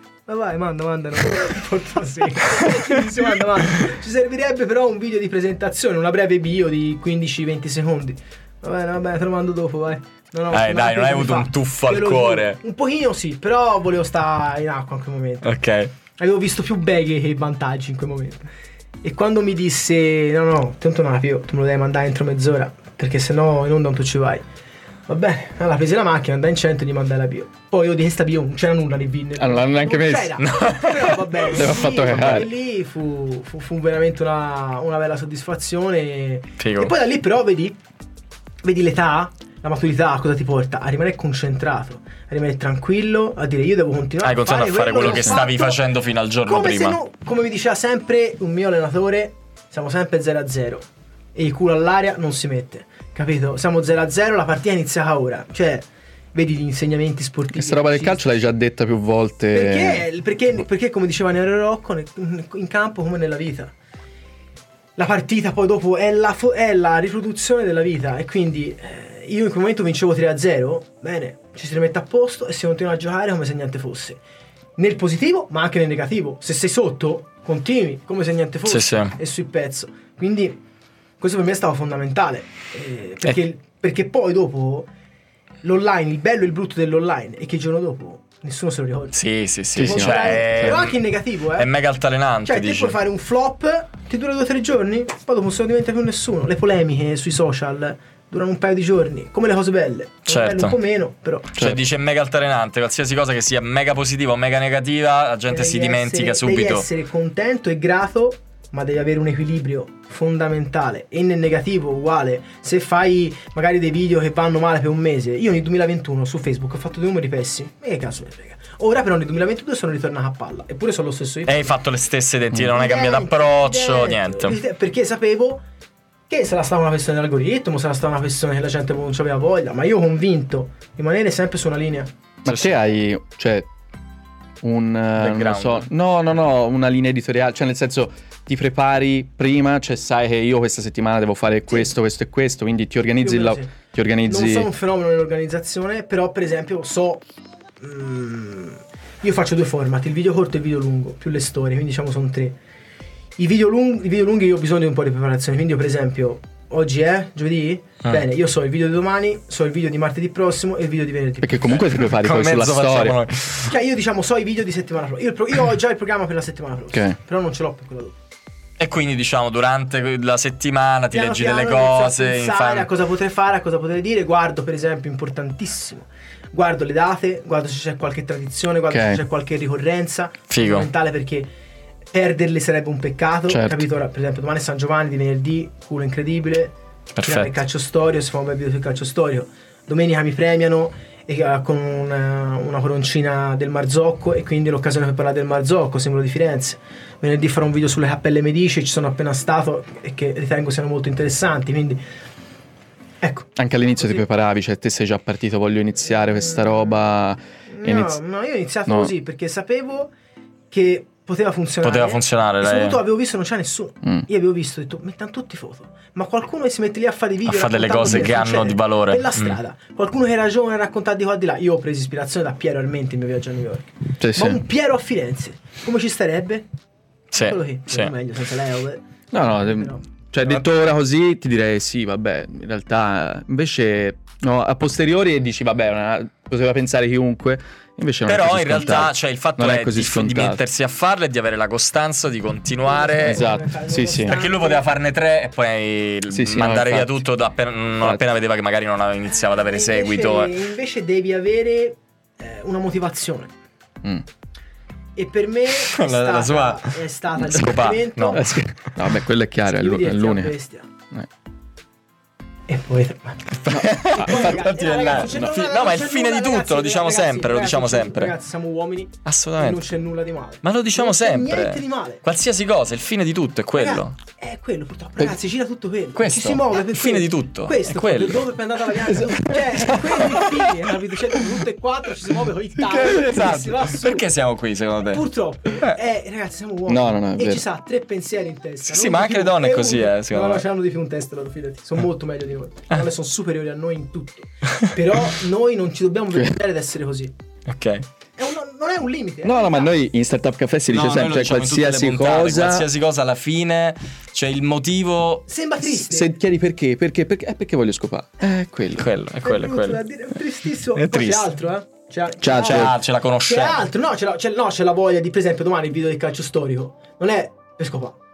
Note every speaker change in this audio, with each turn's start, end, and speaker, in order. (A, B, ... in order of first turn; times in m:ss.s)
0:00.3-0:15.6 A
0:10.5-0:12.6 B
0:15.4-0:15.9 B
0:16.2-0:18.5 A
0:19.0-0:24.4 A
0:25.1-0:37.8 A
0:29.4-0:30.4 C
0:30.4-0:31.2 B
0:31.5-0:32.5 C
0:36.6-0:36.9 B
0:38.6-0:45.8 A
0:44.2-0:47.0 B
0:46.5-0:58.2 A
0:57.5-1:00.0 C
0:59.5-1:03.7 A
1:05.0-1:14.2 A
1:14.8-1:20.6 A
1:18.7-1:19.2 B
1:21.2-1:24.9 A
1:25.6-1:29.2 A
1:29.1-1:31.0 B
1:29.8-1:30.8 C
1:29.8-1:31.7 A
1:31.6-1:33.0 B
1:32.4-1:41.5 A
1:40.3-1:40.8 B
1:41.6-1:46.9 B
1:45.5-2:01.7 A
2:01.5-2:04.6 B
2:02.7-2:05.6 A
2:06.3-2:12.1 A
2:12.4-2:13.7 C
2:12.5-2:12.7 B
2:14.6-2:24.7 C
2:15.2-2:15.9 B
2:23.2-2:23.8 A
2:24.3-2:27.2 A
2:27.8-2:32.6 A
2:33.4-2:41.8 A
2:41.4-2:43.2 C
2:41.7-2:43.7 B
2:43.7-2:48.2 A
2:48.8-2:52.9 B
2:51.1-3:01.5 A
2:58.9-2:59.2 C
3:00.5-3:00.9 B
3:02.1-3:22.0 A
3:03.5-3:03.8 C
3:07.1-3:07.6 B
3:23.2-3:24.2 A
3:23.6-3:28.2 C
3:26.1-3:27.0 A
3:27.7-3:30.1 A
3:28.9-3:29.1 C
3:30.7-3:46.7 A
3:31.8-3:33.0 B
3:37.5-3:39.6 B
3:44.2-3:44.6 C
3:47.3-3:48.1 B
3:47.3-3:50.1 A
3:49.3-4:00.6 C
3:58.3-4:03.5 B
4:02.9-4:04.8 A
4:03.2-4:04.4 C
4:04.2-4:10.5 B
4:06.3-4:07.2 C
4:09.3-4:13.5 A
4:15.2-4:18.6 A
4:15.8-4:18.4 B
4:18.3-4:20.5 C
4:19.7-4:20.9 A
4:22.7-4:32.2 A
4:23.6-4:28.3 B
4:23.7-4:24.5 C
4:29.2-4:29.8 B
4:30.6-4:34.2 B
4:33.8-4:44.3 A
4:36.2-4:38.5 B
4:39.8-4:40.6 B
4:42.8-4:45.2 B
4:45.1-4:57.3 A
4:46.9-4:47.6 C
4:48.9-4:50.6 B
4:57.7-4:58.0 B
4:58.4-4:59.9 A
4:59.4-5:02.9 C
5:00.9-5:05.5 B
5:05.5-5:06.3 A
5:05.8-5:09.1 C
5:09.0-5:10.0 B
5:09.4-5:18.2 A
5:11.0-5:11.5 B
5:12.4-5:13.0 C
5:12.6-5:13.8 B